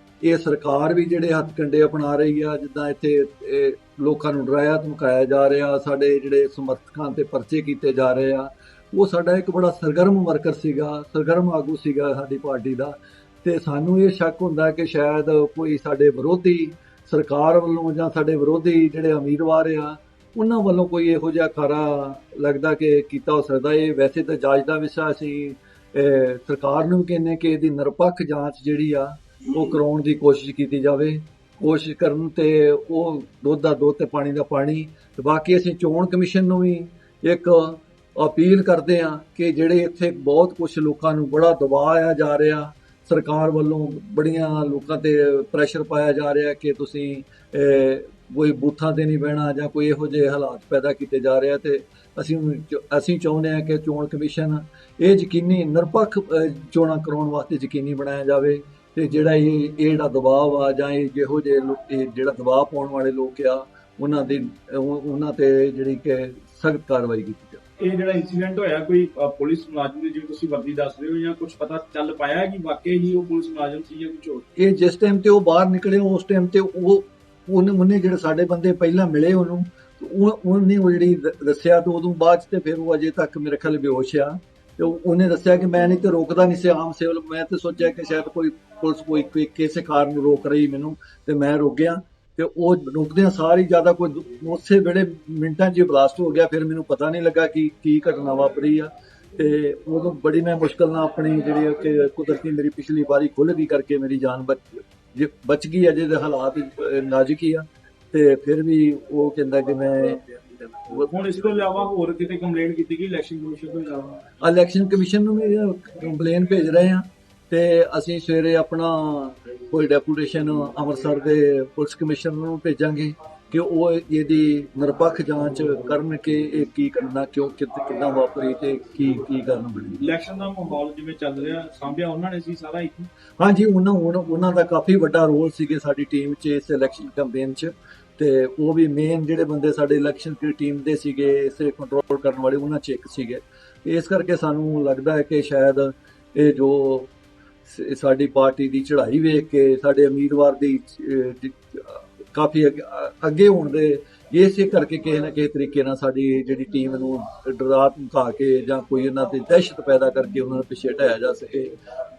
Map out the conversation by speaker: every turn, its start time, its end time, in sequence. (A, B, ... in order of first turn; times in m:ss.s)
0:00.2-1:07.6 A
1:07.8-1:14.5 B
1:14.6-1:51.1 A
1:51.0-1:54.3 B
1:54.4-2:10.0 A
2:10.0-2:13.1 B
2:13.4-2:27.1 A
2:27.6-2:41.8 A